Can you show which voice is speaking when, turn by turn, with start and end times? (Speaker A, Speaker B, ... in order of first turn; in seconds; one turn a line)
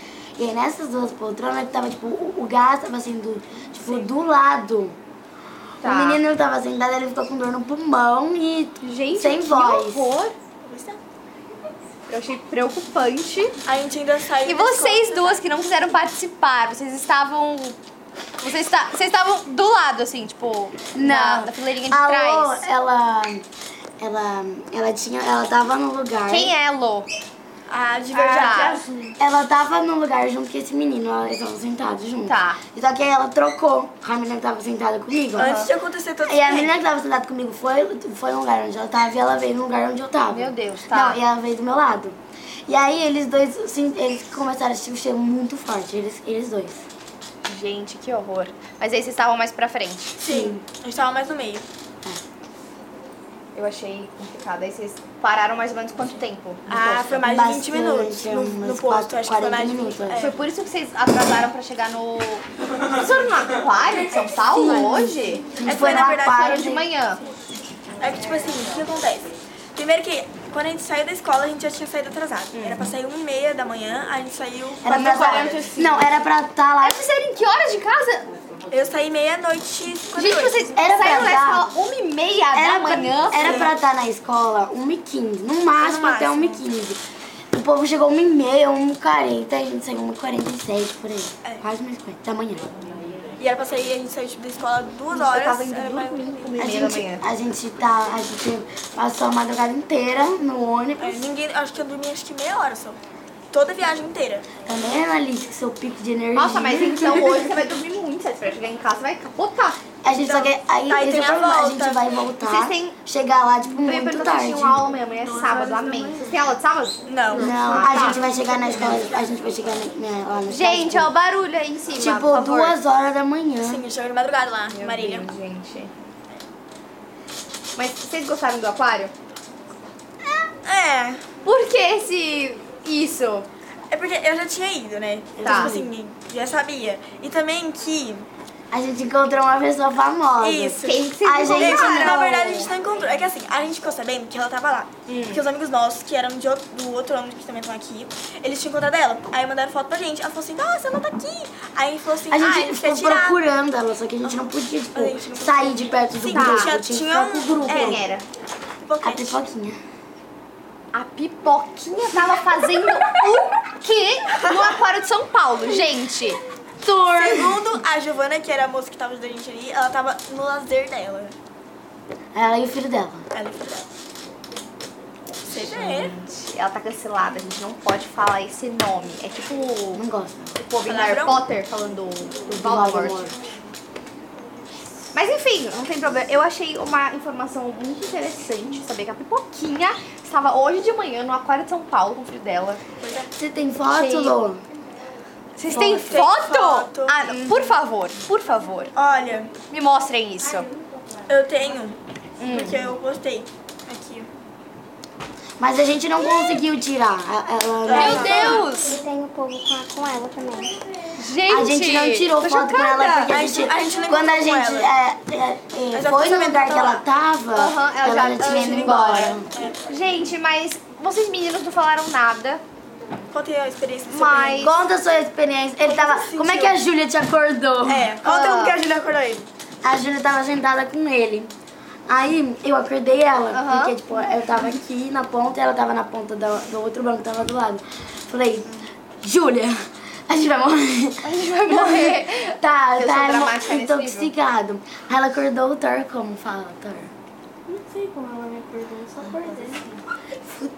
Speaker A: 0.4-5.0
Speaker A: 5.8-10.1
Speaker B: 5.8-6.2
Speaker B: 8.8-10.3
Speaker C: 10.7-11.0
Speaker B: 12.1-13.6
Speaker C: 13.6-15.4
Speaker B: 14.4-17.8
Speaker B: 18.4-22.7
Speaker A: 20.9-23.4
Speaker A: 24.0-26.5
Speaker B: 26.3-27.1
Speaker C: 27.7-29.1
Speaker B: 28.1-28.8
Speaker A: 29.2-35.5
Speaker B: 32.2-32.6
Speaker C: 35.4-36.8
Speaker B: 35.4-35.7
Speaker A: 36.2-42.1
Speaker B: 40.3-41.2
Speaker A: 42.7-46.9
Speaker B: 47.4-50.2
Speaker C: 50.2-51.6
Speaker A: 50.3-50.6
Speaker B: 53.5-56.6
Speaker C: 56.7-60.4
Speaker A: 56.7-60.3
Speaker B: 60.2-67.2
Speaker A: 64.5-66.9
Speaker C: 65.6-66.5
Speaker C: 68.0-75.6
Speaker B: 72.5-72.9
Speaker A: 74.8-77.0
Speaker B: 74.9-76.1
Speaker B: 76.8-78.3
Speaker C: 78.7-80.7
Speaker B: 80.1-83.7
Speaker A: 80.7-81.7
Speaker A: 82.5-87.0
Speaker C: 83.3-83.7
Speaker C: 85.8-86.6
Speaker A: 87.5-92.7
Speaker C: 93.4-96.5
Speaker B: 95.1-97.2
Speaker A: 96.6-101.3
Speaker C: 101.0-103.0
Speaker C: 103.5-104.5
Speaker A: 104.6-107.3
Speaker B: 106.3-109.8
Speaker A: 110.0-114.8
Speaker C: 110.1-112.0
Speaker B: 112.4-113.0
Speaker B: 113.8-118.2
Speaker D: 115.3-116.1
Speaker C: 117.0-119.1
Speaker A: 117.3-121.1
Speaker B: 120.5-122.8
Speaker A: 122.0-123.8
Speaker C: 123.6-125.3
Speaker B: 124.7-125.9
Speaker B: 127.8-129.1
Speaker C: 130.2-131.2
Speaker B: 131.4-133.5
Speaker C: 133.9-138.3
Speaker A: 135.4-135.9
Speaker B: 135.4-135.8
Speaker A: 138.7-142.4
Speaker C: 140.4-141.0
Speaker B: 140.8-142.7
Speaker C: 141.5-153.4
Speaker B: 145.1-145.4
Speaker A: 152.3-158.0
Speaker C: 154.2-158.0
Speaker B: 156.3-156.7
Speaker B: 157.6-158.2
Speaker C: 158.8-159.4
Speaker A: 159.0-159.8
Speaker B: 160.9-166.4
Speaker A: 166.8-167.8
Speaker C: 167.1-171.3
Speaker A: 172.3-173.2
Speaker C: 173.3-173.9
Speaker B: 175.4-180.0
Speaker C: 175.4-176.1
Speaker A: 179.9-180.6
Speaker B: 180.6-183.3
Speaker C: 180.8-181.4
Speaker A: 182.5-183.4
Speaker B: 185.1-192.8
Speaker C: 193.0-193.3
Speaker A: 193.4-194.6
Speaker B: 193.8-194.4
Speaker B: 195.6-198.9
Speaker C: 195.7-197.7
Speaker A: 195.7-196.1
Speaker C: 198.9-199.5
Speaker B: 199.7-200.7
Speaker C: 201.3-204.3
Speaker B: 202.4-202.9
Speaker A: 205.6-208.8
Speaker C: 207.8-208.7
Speaker B: 207.9-209.0
Speaker D: 209.0-210.2
Speaker B: 211.2-213.3
Speaker A: 211.5-219.5
Speaker C: 213.3-214.9
Speaker C: 215.9-217.0
Speaker B: 217.5-222.6
Speaker C: 218.4-219.8
Speaker C: 223.3-224.8
Speaker B: 224.1-224.7
Speaker A: 224.6-228.1
Speaker C: 225.8-226.8
Speaker C: 227.9-229.5
Speaker B: 228.2-228.8
Speaker A: 229.8-231.5
Speaker A: 232.1-247.1
Speaker B: 233.5-234.0
Speaker B: 241.2-244.3